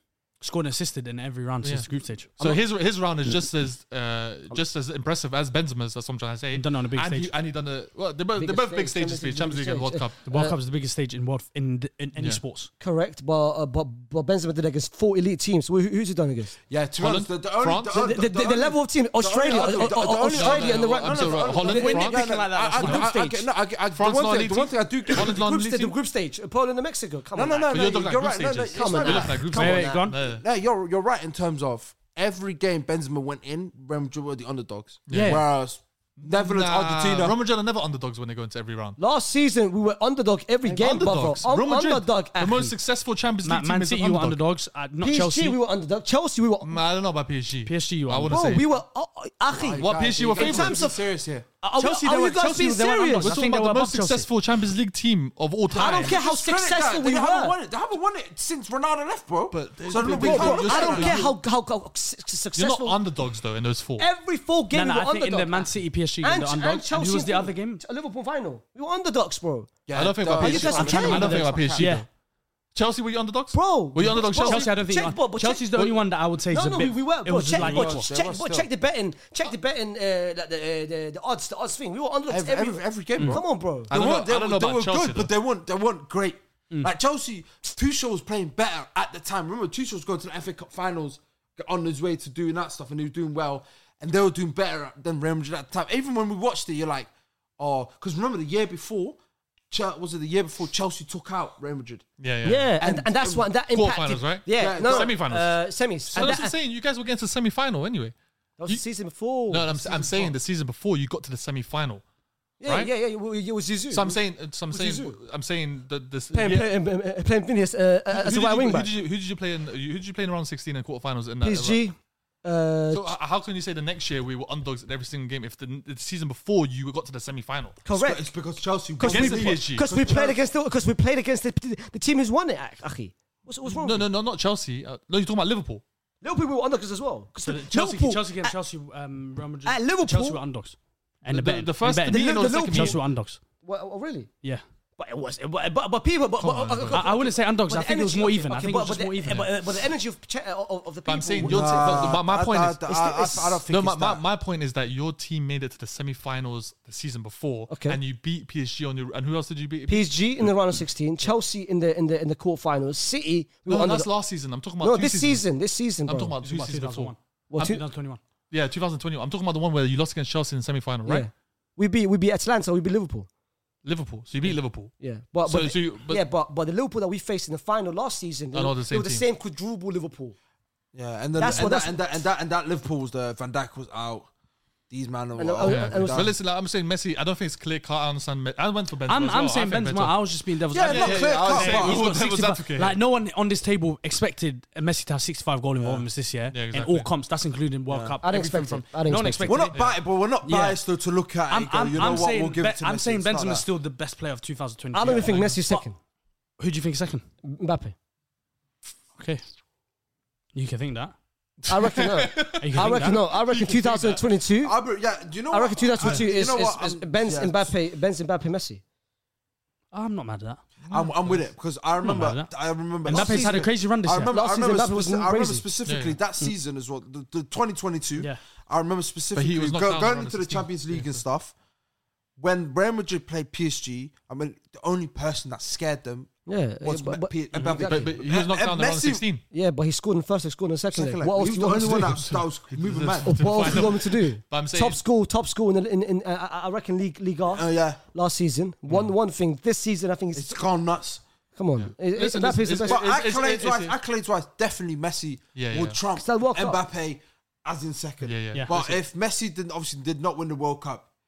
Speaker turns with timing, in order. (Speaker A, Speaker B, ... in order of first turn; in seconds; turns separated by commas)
Speaker A: 0.4-2.4, Speaker B: 1.6-1.9, Speaker B: 2.4-10.2, Speaker A: 6.5-7.3, Speaker C: 8.3-10.6, Speaker A: 10.2-12.7, Speaker B: 12.2-12.4, Speaker C: 12.8-16.6, Speaker D: 16.7-25.3, Speaker B: 17.0-18.0, Speaker C: 17.9-23.5, Speaker B: 19.9-23.0, Speaker A: 21.7-23.0, Speaker B: 23.9-25.9, Speaker C: 25.1-28.1, Speaker D: 27.3-29.6, Speaker B: 27.7-30.4, Speaker C: 28.7-30.1, Speaker A: 29.5-30.3, Speaker D: 30.3-37.4, Speaker B: 35.1-35.5, Speaker A: 35.1-35.5, Speaker B: 36.2-39.0, Speaker C: 39.0-42.7, Speaker B: 40.6-44.4, Speaker A: 43.4-45.6, Speaker C: 45.0-46.8, Speaker B: 46.6-48.7, Speaker A: 47.6-48.6, Speaker C: 48.2-51.0, Speaker D: 49.5-51.5, Speaker B: 49.7-50.8, Speaker C: 51.6-53.3, Speaker A: 51.8-54.3, Speaker B: 53.2-56.2, Speaker D: 55.7-61.4, Speaker C: 55.7-57.5, Speaker B: 59.5-61.2, Speaker C: 59.9-63.0, Speaker B: 62.5-64.0, Speaker C: 64.0-69.7, Speaker A: 64.7-67.8, Speaker D: 69.8-72.0, Speaker B: 69.9-72.1, Speaker C: 70.4-71.5, Speaker A: 70.6-72.1, Speaker B: 72.7-74.7, Speaker C: 73.5-75.8, Speaker A: 74.1-78.1, Speaker C: 76.5-83.9, Speaker D: 77.5-78.7, Speaker D: 82.3-99.2, Speaker A: 83.2-83.4, Speaker B: 83.9-85.3, Speaker D: 99.7-102.0, Speaker B: 102.2-102.7, Speaker C: 102.4-106.5, Speaker D: 102.8-103.5, Speaker B: 103.7-105.6, Speaker D: 104.5-105.2, Speaker B: 106.1-108.1, Speaker C: 108.6-109.7, Speaker B: 109.5-112.0, Speaker D: 109.7-110.3, Speaker C: 112.6-115.2, Speaker B: 112.7-112.9, Speaker B: 113.9-116.7, Speaker C: 116.3-118.9, Speaker B: 118.1-121.8, Speaker C: 121.4-123.1, Speaker B: 122.9-127.8, Speaker C: 127.8-128.3, Speaker D: 127.9-130.4, Speaker C: 128.9-134.1, Speaker B: 129.0-129.9, Speaker B: 133.7-135.8, Speaker C: 136.2-138.6, Speaker A: 137.4-143.4, Speaker C: 139.6-140.4, Speaker B: 141.3-143.0, Speaker C: 142.0-143.1, Speaker C: 143.6-144.3, Speaker C: 145.0-152.2, Speaker B: 146.4-147.0, Speaker A: 146.9-149.5, Speaker B: 151.0-152.9, Speaker D: 151.4-154.2, Speaker C: 152.9-153.6, Speaker B: 153.7-160.5, Speaker C: 157.7-158.0, Speaker C: 159.9-164.1, Speaker B: 163.7-165.5, Speaker C: 164.8-166.3, Speaker B: 166.1-167.8, Speaker A: 166.4-168.2, Speaker C: 167.5-167.8, Speaker B: 168.5-171.3, Speaker C: 171.1-173.3, Speaker B: 173.8-176.2, Speaker C: 174.5-180.3, Speaker B: 178.5-179.2, Speaker D: 180.9-184.3, Speaker C: 181.4-182.0, Speaker D: 184.9-186.3, Speaker C: 185.4-186.3, Speaker B: 185.6-193.0, Speaker A: 189.1-199.8, Speaker D: 190.7-192.1, Speaker D: 195.8-196.0, Speaker B: 196.5-197.1, Speaker D: 197.9-198.2, Speaker C: 198.2-199.6, Speaker D: 199.4-203.7, Speaker A: 200.4-200.8, Speaker A: 201.5-205.8, Speaker C: 204.9-205.9, Speaker B: 205.1-205.6, Speaker A: 206.6-207.2, Speaker C: 207.4-207.9, Speaker A: 209.2-209.4, Speaker A: 210.5-211.1, Speaker B: 211.6-214.2, Speaker C: 211.7-214.7, Speaker A: 212.6-213.2, Speaker D: 214.6-217.7, Speaker C: 215.5-218.8, Speaker A: 219.9-220.6, Speaker B: 220.8-221.4, Speaker D: 220.9-231.5, Speaker A: 222.0-224.3, Speaker C: 223.1-223.7, Speaker C: 224.2-225.7, Speaker B: 225.8-226.2, Speaker B: 229.3-231.0, Speaker D: 232.4-239.2, Speaker C: 236.4-238.1, Speaker A: 237.5-237.8, Speaker B: 237.8-239.4, Speaker C: 239.5-242.2, Speaker D: 240.9-243.9, Speaker B: 241.9-245.0, Speaker C: 243.2-250.6, Speaker D: 247.5-248.0, Speaker D: 250.3-251.2, Speaker C: 251.5-253.1, Speaker B: 251.8-253.9, Speaker D: 252.8-261.1, Speaker B: 255.6-256.0, Speaker C: 256.1-256.8, Speaker B: 258.2-259.0